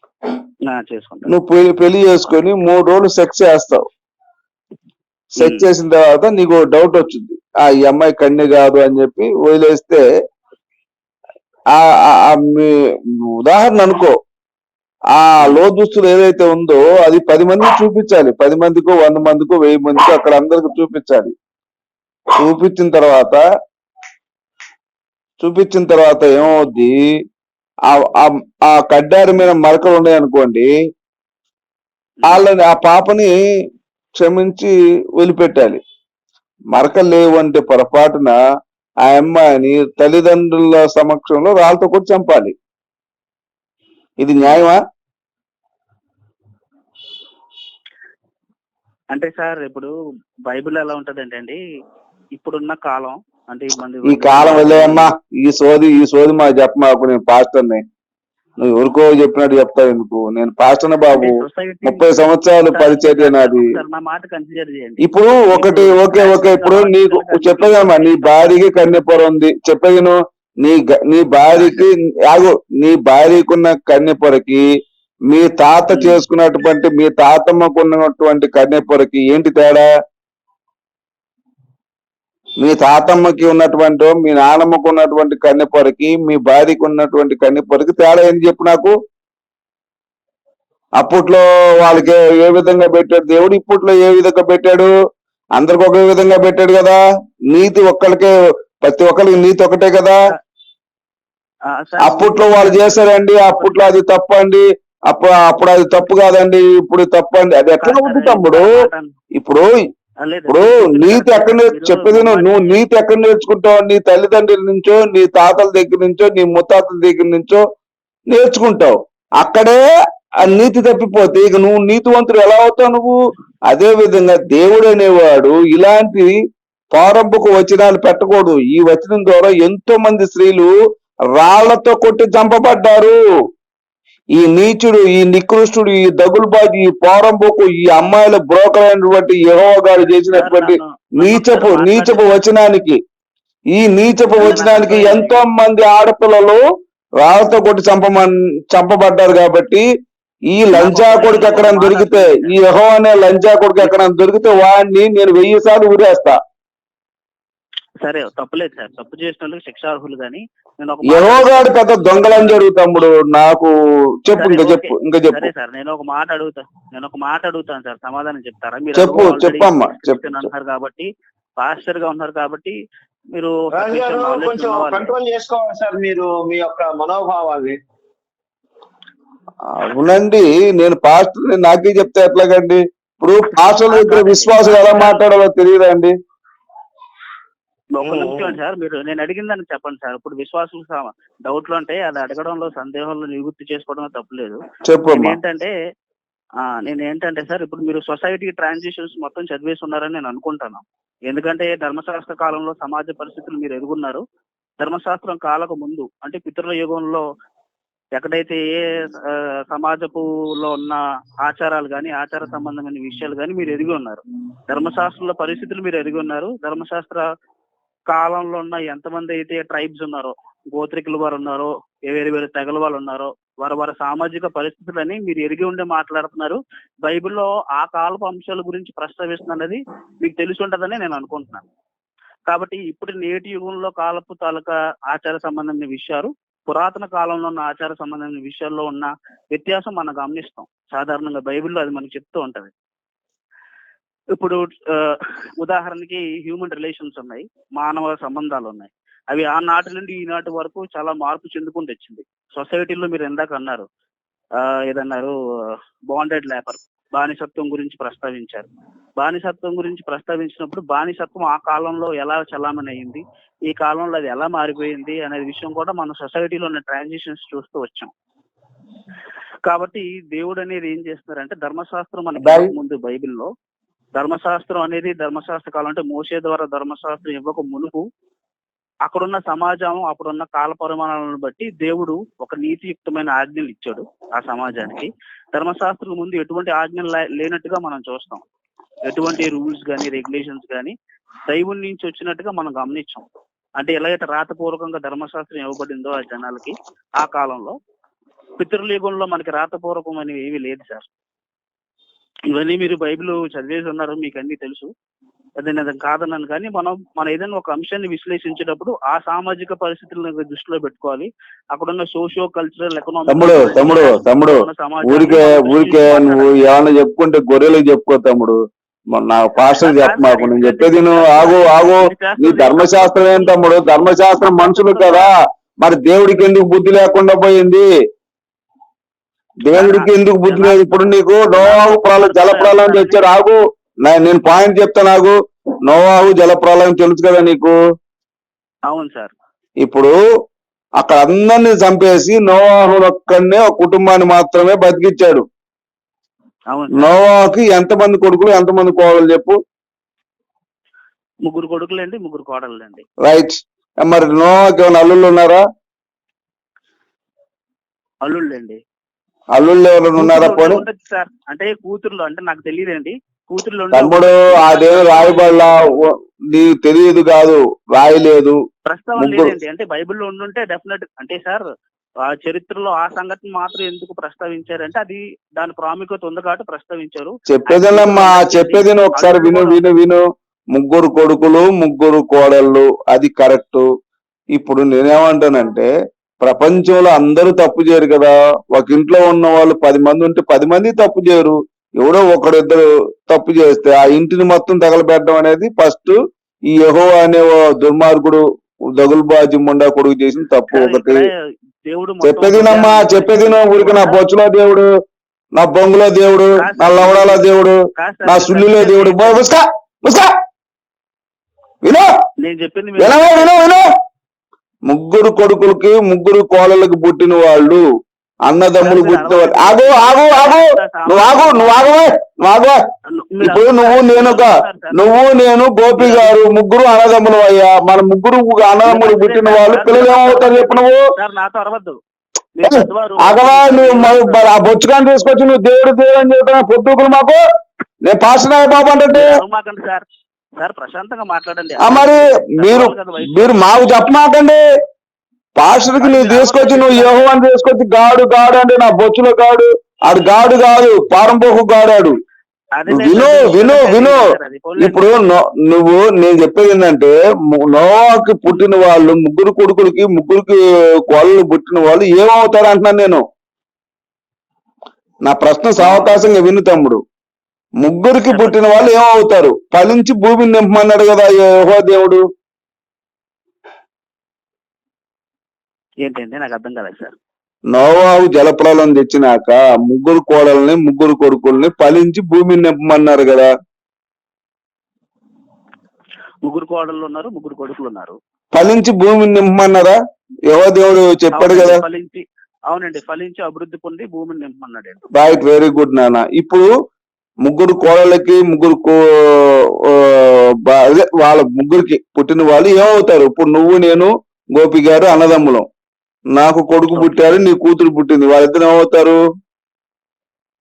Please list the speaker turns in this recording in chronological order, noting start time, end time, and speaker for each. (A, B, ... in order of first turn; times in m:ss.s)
0:00.6-0:01.3 A
0:01.3-0:03.8 B
0:05.4-0:10.0 B
0:05.4-0:05.7 A
0:11.7-0:12.7 B
0:13.4-0:14.1 B
0:15.1-0:21.3 B
0:22.4-0:23.4 B
0:25.4-0:27.0 B
0:27.9-0:30.7 B
0:32.3-0:33.3 B
0:34.2-0:35.8 B
0:36.7-0:38.4 B
0:39.0-0:42.5 B
0:44.2-0:44.8 B
0:49.1-0:49.9 A
0:50.5-0:51.6 A
0:52.4-0:55.1 A
0:54.1-0:57.8 B
0:58.6-1:03.8 B
1:01.1-1:08.6 A
1:05.0-1:14.6 B
1:11.5-1:11.8 A
1:15.3-1:19.9 B
1:15.9-1:16.2 A
1:22.6-1:29.0 B
1:31.0-1:34.9 B
1:35.6-1:37.0 B
1:37.5-1:40.2 B
1:41.7-1:43.9 A
1:42.0-1:48.7 B
1:47.8-1:49.1 A
1:49.4-1:49.7 B
1:50.2-1:52.9 A
1:50.5-1:57.6 B
1:58.3-1:59.8 B
2:00.4-2:03.1 B
2:03.7-2:06.3 B
2:06.9-2:10.7 B
2:11.4-2:13.2 B
2:14.4-2:23.0 B
2:20.1-2:22.4 A
2:23.7-2:26.6 B
2:24.4-2:25.4 A
2:27.2-2:29.8 B
2:30.5-2:36.4 B
2:30.7-2:32.6 A
2:33.8-2:34.1 A
2:38.0-2:42.6 A
2:41.1-2:43.7 B
2:44.2-2:45.5 B
2:44.3-2:51.1 A
2:49.0-2:50.2 B
2:51.6-2:52.7 A
2:53.3-2:55.1 A
2:53.8-2:57.8 C
2:59.7-3:06.1 B
3:03.6-3:05.3 A
3:07.9-3:14.6 A
3:08.0-3:08.5 C
3:14.9-3:15.4 B
3:15.1-3:15.7 A
3:16.6-3:24.2 A
3:24.8-3:27.2 A
3:28.2-3:37.3 A
3:38.1-3:51.7 A
3:52.5-4:02.7 A
4:04.3-4:13.9 A
4:14.6-4:15.3 A
4:16.1-4:28.1 A
4:29.7-4:33.5 A
4:32.4-4:32.7 B
4:34.1-4:38.0 A
4:39.0-4:48.4 A
4:49.1-4:50.9 A
4:51.5-4:53.2 A
4:53.8-4:57.7 A
4:58.6-5:01.1 A
5:02.5-5:04.9 A
5:05.6-5:16.6 A
5:13.3-5:18.6 B
5:19.1-5:27.9 B
5:19.7-5:25.3 A
5:29.7-5:35.3 B
5:29.7-5:33.2 A
5:35.8-5:37.8 B
5:38.9-5:39.3 A
5:39.8-5:40.2 B
5:41.0-5:45.4 B
5:46.7-5:47.1 A
5:47.0-5:49.6 B
5:51.4-5:53.0 A
5:53.2-5:55.6 B
5:58.2-5:58.8 A
5:59.5-6:00.8 B
6:00.2-6:05.9 A
6:03.9-6:08.6 B
6:08.8-6:11.6 A
6:09.2-6:09.5 B
6:12.2-6:19.9 A
6:17.5-6:23.8 B
6:24.5-6:25.9 B
6:26.4-6:36.2 B
6:36.7-6:38.4 B
6:39.0-6:41.3 B
6:40.7-6:41.3 A
6:41.9-6:44.2 A
6:42.2-6:44.9 B
6:45.6-6:50.3 B
6:46.6-6:49.5 A
6:52.4-6:53.8 A
6:53.0-6:53.9 B
6:54.9-6:57.8 B
6:58.5-7:02.8 B
6:58.8-7:01.9 A
7:03.1-7:05.0 A
7:03.4-7:11.0 B
7:05.9-7:06.3 A
7:08.8-7:12.0 A
7:12.6-7:14.5 A
7:12.6-7:17.4 B
7:18.0-7:19.3 B
7:19.1-7:20.0 A
7:20.6-7:23.7 A
7:21.8-7:24.6 B
7:25.6-7:32.1 B
7:25.9-7:27.4 A
7:32.8-7:35.1 A
7:32.9-7:34.2 B
7:34.8-7:43.2 B
7:45.2-7:47.0 B
7:45.8-7:46.2 A
7:47.8-7:52.2 B
7:48.3-7:48.6 A
7:56.0-7:57.2 A
7:57.7-8:03.5 B
8:06.4-8:08.2 A
8:08.5-8:10.0 B
8:10.5-8:11.8 B
8:11.3-8:15.0 A
8:15.1-8:16.7 B
8:17.4-8:25.6 B
8:26.4-8:29.2 B
8:26.9-8:27.2 A